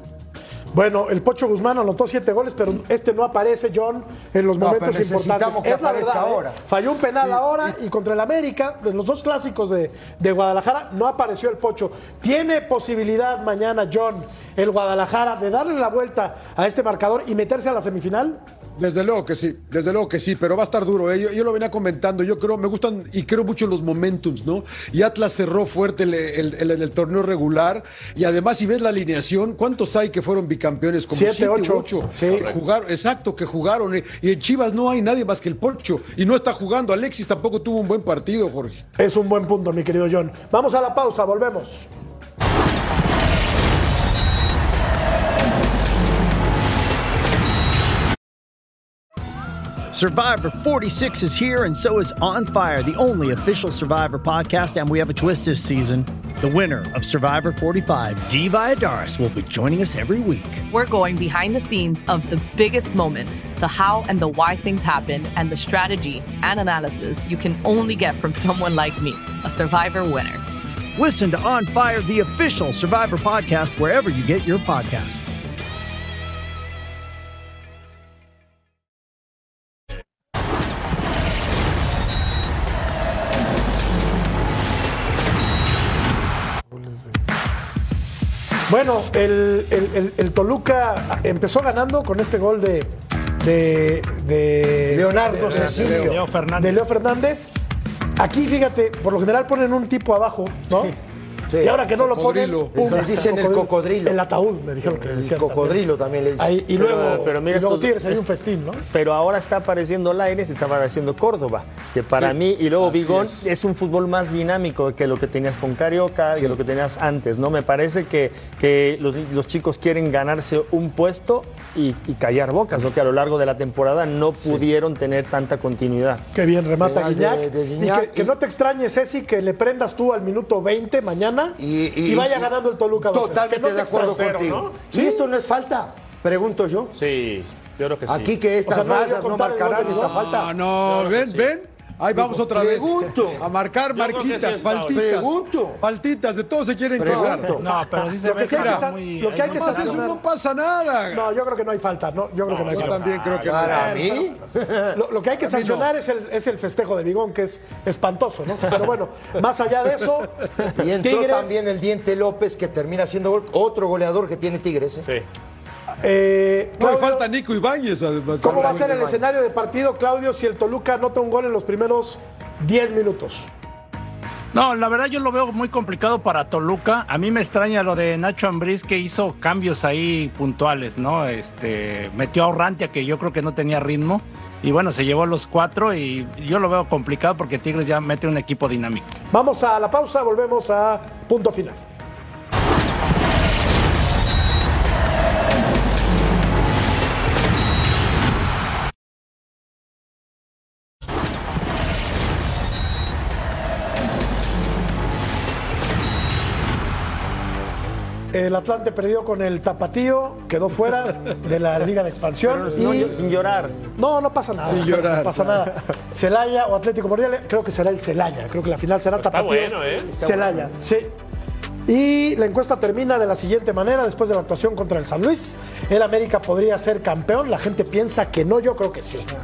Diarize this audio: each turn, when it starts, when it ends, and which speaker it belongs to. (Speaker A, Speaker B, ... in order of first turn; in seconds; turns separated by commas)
Speaker A: 0.7-18.4, Speaker B: 4.6-6.6, Speaker C: 18.8-38.8, Speaker A: 31.1-32.5, Speaker A: 39.0-41.9, Speaker D: 49.9-60.6, Speaker E: 60.7-70.4, Speaker D: 71.0-75.2, Speaker A: 86.7-87.1, Speaker A: 88.7-96.0, Speaker B: 94.9-96.2, Speaker F: 95.5-96.8, Speaker C: 95.6-96.1, Speaker A: 96.6-97.5, Speaker A: 98.2-100.9, Speaker B: 101.5-101.8, Speaker A: 101.6-105.8, Speaker C: 102.0-102.9, Speaker B: 102.7-104.2, Speaker B: 104.8-107.3, Speaker A: 106.4-108.8, Speaker G: 106.8-108.2, Speaker G: 108.9-126.2, Speaker C: 112.2-113.4, Speaker A: 126.3-134.3, Speaker B: 126.8-128.3, Speaker B: 131.6-136.9, Speaker H: 134.0-134.9, Speaker A: 134.9-135.2, Speaker H: 136.9-138.3, Speaker B: 138.1-140.5, Speaker A: 138.7-140.2, Speaker C: 139.8-147.6, Speaker H: 140.8-141.5, Speaker B: 142.3-143.4, Speaker H: 143.9-145.0, Speaker B: 144.8-145.8, Speaker B: 147.0-147.6, Speaker F: 147.2-150.2, Speaker A: 148.1-150.2, Speaker C: 148.5-148.9, Speaker C: 149.4-151.3, Speaker A: 151.1-154.3, Speaker C: 152.5-154.1, Speaker F: 152.7-153.3, Speaker B: 153.4-155.0, Speaker A: 154.9-160.4, Speaker C: 155.4-155.9, Speaker B: 160.7-165.0, Speaker A: 161.0-161.5, Speaker A: 166.0-167.3, Speaker C: 166.8-168.8, Speaker B: 168.4-169.2, Speaker A: 168.4-173.5, Speaker F: 174.5-189.2, Speaker A: 189.3-191.8, Speaker A: 208.3-213.1, Speaker G: 212.5-213.8, Speaker A: 214.0-221.1, Speaker C: 214.6-215.7, Speaker H: 219.2-220.1, Speaker G: 220.2-220.7, Speaker A: 221.9-229.3